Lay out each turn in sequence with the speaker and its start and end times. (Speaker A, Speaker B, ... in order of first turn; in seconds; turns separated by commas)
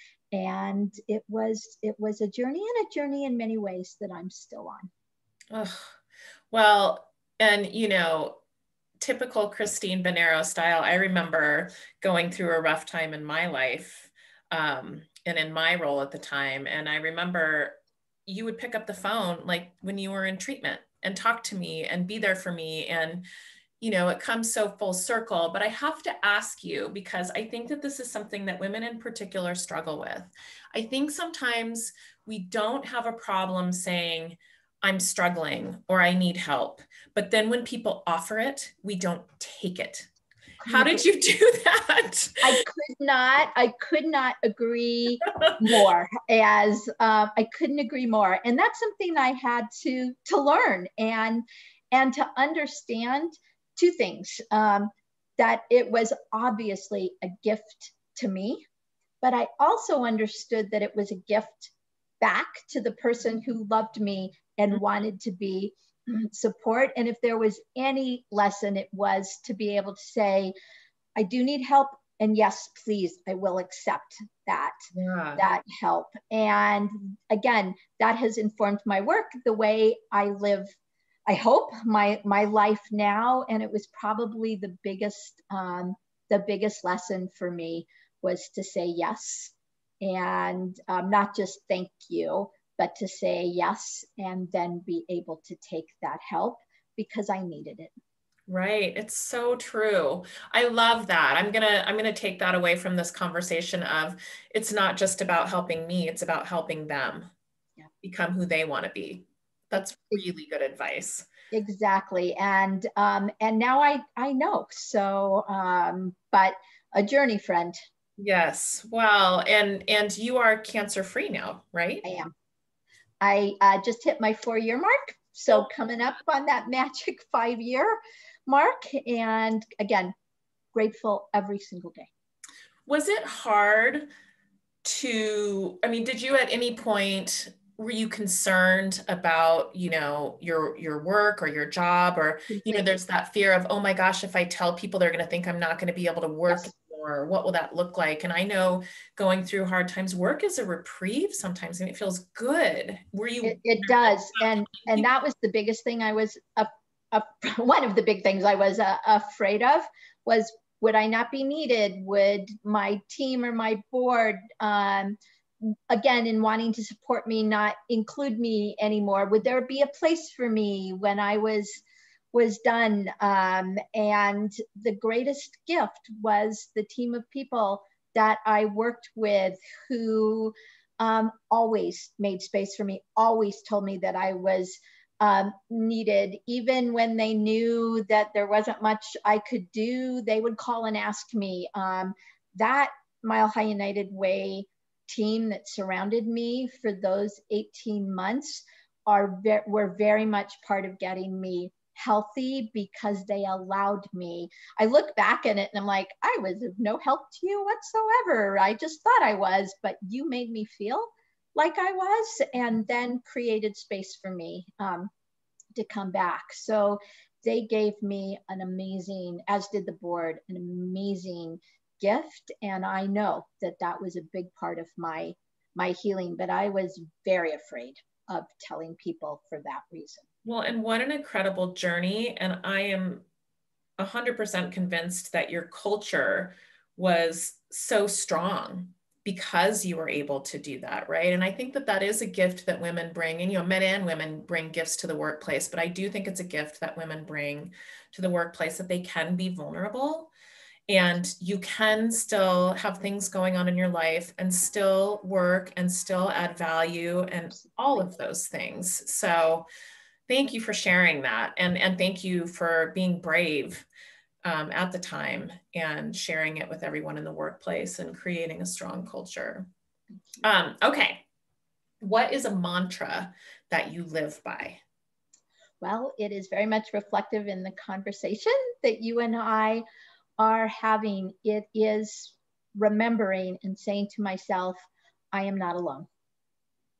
Speaker A: 0.3-4.9, Speaker B: 5.5-5.9, Speaker B: 6.5-8.4, Speaker B: 9.0-23.2, Speaker B: 23.8-40.1, Speaker A: 40.6-41.0, Speaker B: 40.6-42.6, Speaker A: 42.4-58.6, Speaker A: 59.2-70.5, Speaker A: 71.2-74.8, Speaker B: 74.9-75.4, Speaker A: 75.3-80.7, Speaker A: 81.3-97.9, Speaker B: 98.5-107.3, Speaker B: 108.0-111.3, Speaker A: 111.5-117.8, Speaker B: 118.2-122.0, Speaker A: 122.0-122.3, Speaker A: 123.2-130.1, Speaker A: 130.7-132.1, Speaker B: 132.8-134.1, Speaker B: 134.8-154.0, Speaker A: 142.5-143.0, Speaker A: 153.4-165.2, Speaker A: 165.9-171.8, Speaker A: 172.3-215.1, Speaker A: 215.7-230.2, Speaker B: 230.4-233.2, Speaker B: 234.0-250.3, Speaker B: 250.9-259.7, Speaker B: 260.3-263.9, Speaker B: 264.4-269.7, Speaker B: 270.4-271.2, Speaker B: 272.0-274.8, Speaker A: 275.8-279.8, Speaker A: 280.4-286.1